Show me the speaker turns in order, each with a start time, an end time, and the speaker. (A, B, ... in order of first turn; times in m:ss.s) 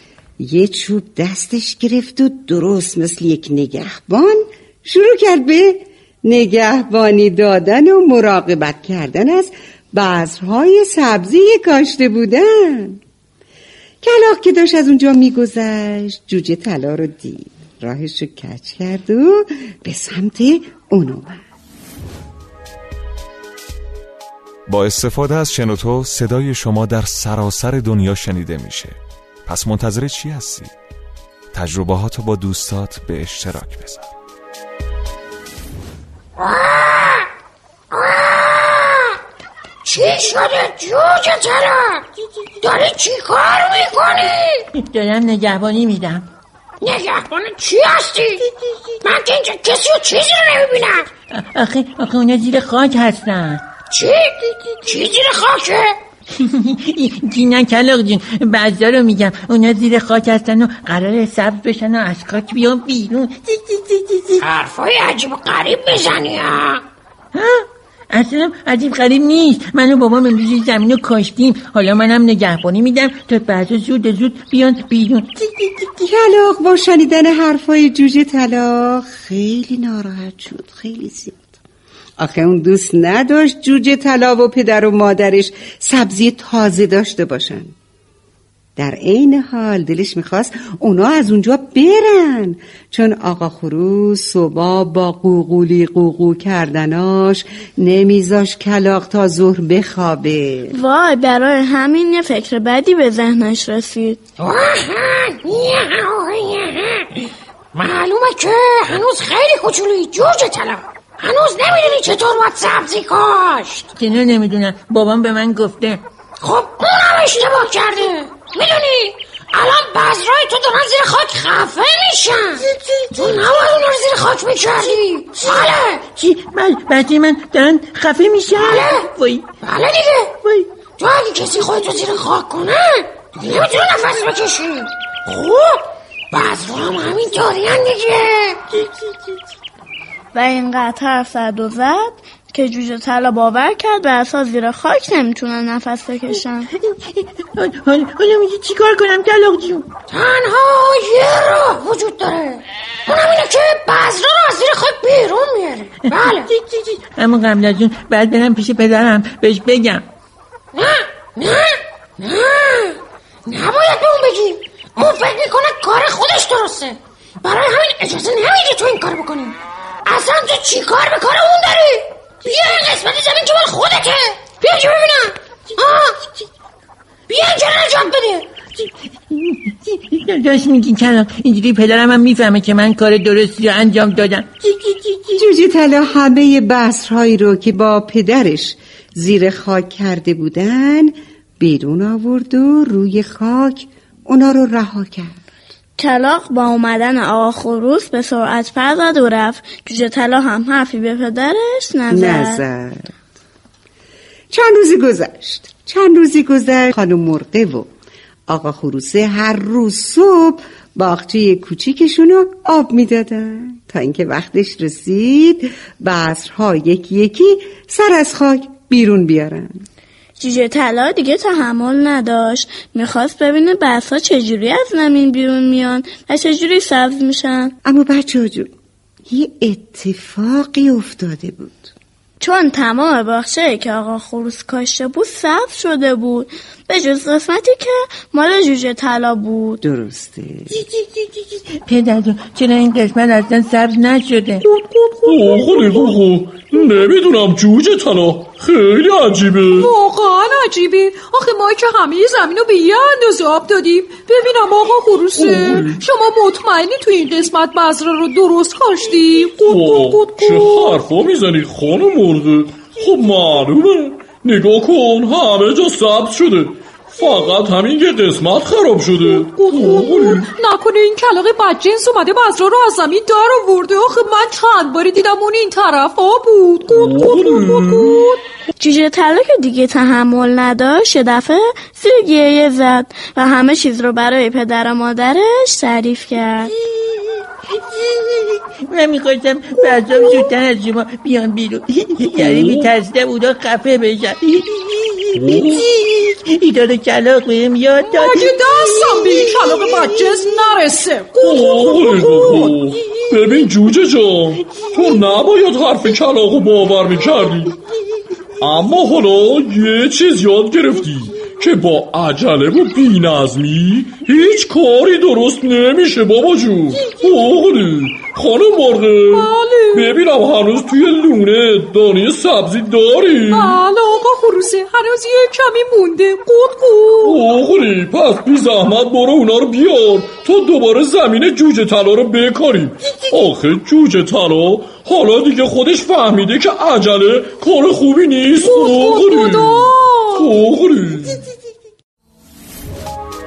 0:00.4-0:13.0 A
0:14.0-0:21.4 A
0:24.7-0:30.7 B
0:31.5-0:34.2 B
0:36.4-0:37.3 C
0:37.9-0:39.1 C
0:39.8-0:42.0 C
0:42.6-0:44.6 C
0:44.8-0:46.3 D
0:46.8-0:48.4 C
0:49.0-0:51.1 C
0:51.3-0:53.6 D
0:53.9-0:56.0 C
0:56.4-1:04.4 D
1:04.4-1:06.8 C
1:07.3-1:15.9 D
1:15.8-1:21.5 A
1:22.2-1:27.7 A
1:28.8-1:40.8 A
1:40.7-1:44.2 E
1:44.4-1:53.9 C
1:53.9-1:56.0 D
1:56.4-2:02.6 C
2:02.7-2:03.5 D
2:03.1-2:06.0 C
2:06.1-2:09.5 D
2:08.6-2:09.1 C
2:09.6-2:10.3 C
2:11.0-2:18.6 C
2:18.7-2:19.4 D
2:20.3-2:26.7 E
2:26.8-2:29.9 D
2:30.1-2:36.5 C
2:36.1-2:40.0 D
2:40.7-2:56.2 C
2:57.3-2:58.5 C
2:58.8-3:05.4 D
3:05.4-3:15.4 A
3:16.0-3:22.6 E
3:22.1-3:23.1 A
3:24.5-3:27.9 A
3:28.5-3:39.8 A
3:40.4-3:47.7 E
3:47.8-3:48.7 A
3:49.3-3:51.9 A
3:52.4-3:59.8 E
3:59.8-4:00.8 A
4:00.7-4:04.6 D
4:04.6-4:06.1 F
4:05.2-4:09.9 G
4:09.7-4:21.0 F
4:15.3-4:16.0 G
4:19.6-4:30.5 G
4:27.2-4:27.6 F
4:29.2-4:38.4 F
4:36.9-4:38.2 G
4:38.8-4:46.7 E
4:46.9-5:00.2 D
4:52.4-4:52.9 G
4:55.4-4:55.9 G
4:58.0-5:02.8 F
5:01.4-5:07.8 G
5:08.6-5:23.8 G
5:17.0-5:17.3 F
5:19.3-5:20.2 F
5:23.5-5:27.4 F
5:27.2-5:41.5 G
5:33.1-5:33.4 F
5:38.6-5:40.5 F